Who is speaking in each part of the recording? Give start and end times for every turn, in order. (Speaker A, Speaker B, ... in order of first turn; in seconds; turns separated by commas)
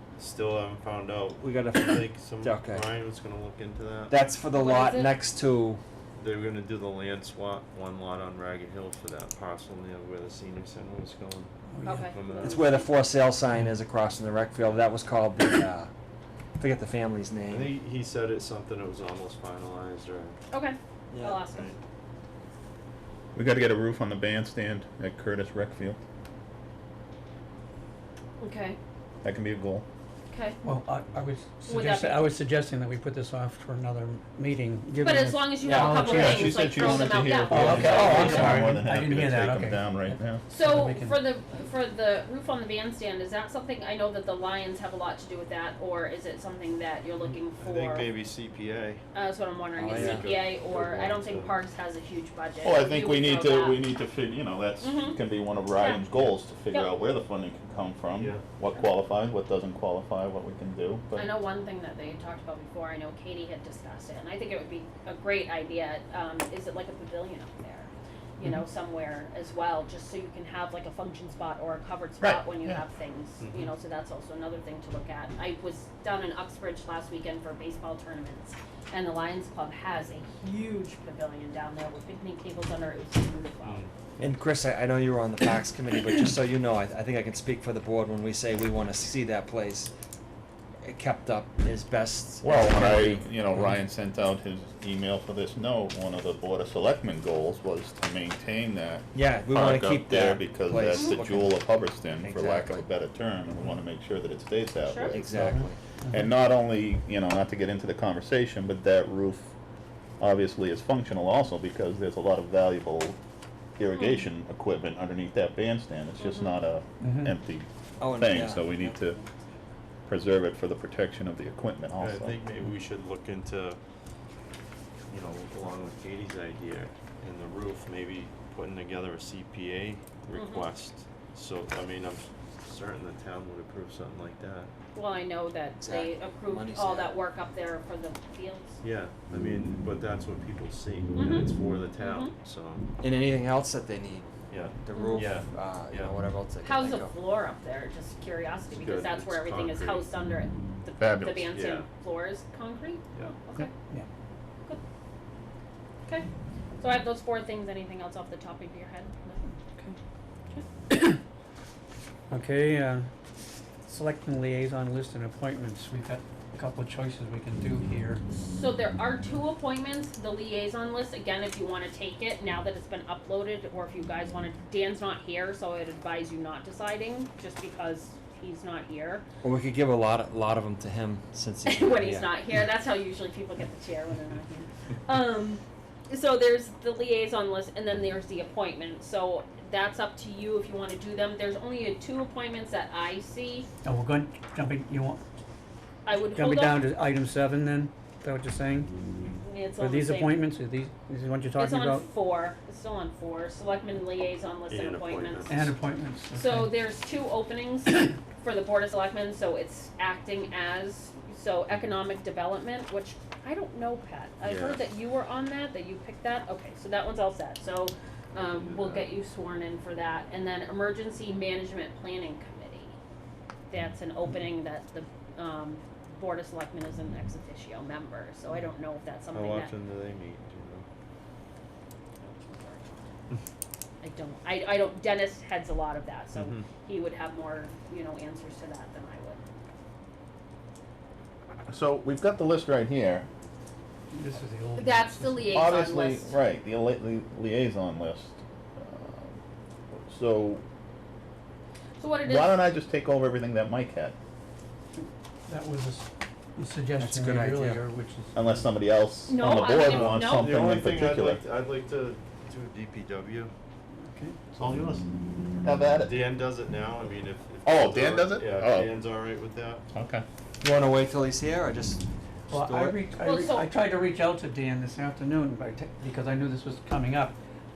Speaker A: 0.2-4.2, Speaker B: 1.4-2.9, Speaker B: 4.1-5.8, Speaker C: 4.5-5.1, Speaker A: 6.2-11.5, Speaker D: 11.7-12.1, Speaker C: 11.8-12.9, Speaker A: 12.1-12.7, Speaker B: 12.4-15.9, Speaker B: 16.6-17.7, Speaker A: 17.5-20.4, Speaker C: 20.5-21.7, Speaker B: 21.1-21.4, Speaker A: 21.5-21.8, Speaker E: 23.3-26.0, Speaker C: 28.4-28.8, Speaker E: 29.2-29.8, Speaker C: 30.3-30.6, Speaker D: 30.6-41.2, Speaker C: 31.6-32.3, Speaker C: 35.0-38.6, Speaker B: 35.6-35.9, Speaker E: 35.8-40.4, Speaker A: 37.6-38.8, Speaker C: 40.5-48.1, Speaker A: 47.6-49.0, Speaker C: 49.1-53.8, Speaker B: 49.8-50.2, Speaker A: 49.9-51.5, Speaker E: 52.6-61.2, Speaker C: 54.8-55.2, Speaker C: 55.7-56.0, Speaker A: 58.1-58.4, Speaker C: 61.1-83.8, Speaker E: 72.2-72.8, Speaker A: 73.4-73.7, Speaker A: 83.6-83.9, Speaker B: 84.2-89.9, Speaker B: 90.8-93.7, Speaker E: 92.4-109.5, Speaker B: 99.1-101.6, Speaker B: 102.2-102.8, Speaker C: 104.8-105.2, Speaker B: 105.1-105.8, Speaker D: 105.5-106.3, Speaker E: 110.2-113.2, Speaker E: 113.8-119.2, Speaker C: 113.9-114.2, Speaker C: 116.2-116.6, Speaker D: 117.0-117.3, Speaker B: 118.0-119.2, Speaker E: 120.1-122.3, Speaker A: 122.0-123.8, Speaker A: 125.1-134.7, Speaker C: 130.3-130.7, Speaker C: 134.9-138.8, Speaker B: 135.8-137.2, Speaker A: 138.8-142.8, Speaker C: 141.2-142.3, Speaker B: 143.0-147.1, Speaker A: 144.5-146.1, Speaker C: 144.9-145.2, Speaker C: 146.6-153.7, Speaker A: 148.7-150.1, Speaker E: 151.0-151.5, Speaker A: 151.5-151.8, Speaker C: 156.8-159.4, Speaker D: 160.9-161.2, Speaker D: 162.3-163.1, Speaker D: 163.8-168.2, Speaker C: 168.3-179.2, Speaker B: 179.4-182.4, Speaker C: 181.6-193.7, Speaker D: 193.8-195.2, Speaker C: 196.0-196.8, Speaker D: 196.2-198.9, Speaker C: 199.4-200.4, Speaker D: 199.8-202.1, Speaker C: 201.6-205.6, Speaker A: 204.7-205.7, Speaker D: 205.5-206.7, Speaker C: 206.3-222.9, Speaker A: 214.4-214.8, Speaker A: 218.4-219.1, Speaker C: 223.7-229.7, Speaker A: 229.3-230.8, Speaker C: 232.2-232.9, Speaker C: 234.0-239.4, Speaker A: 236.3-236.7, Speaker E: 241.7-243.3, Speaker D: 244.1-245.6, Speaker C: 244.8-246.3, Speaker E: 245.5-249.4, Speaker E: 249.9-250.6, Speaker C: 252.0-252.6, Speaker E: 252.2-254.1, Speaker D: 255.0-258.3, Speaker B: 257.0-257.8, Speaker E: 258.3-261.4, Speaker C: 259.3-260.5, Speaker A: 259.6-263.5, Speaker D: 264.0-264.4, Speaker E: 264.6-264.8, Speaker A: 264.6-265.0, Speaker E: 265.6-266.1, Speaker A: 266.0-269.8, Speaker E: 267.6-268.9, Speaker E: 269.9-270.2, Speaker B: 270.6-273.0, Speaker D: 272.5-277.4, Speaker C: 273.2-273.7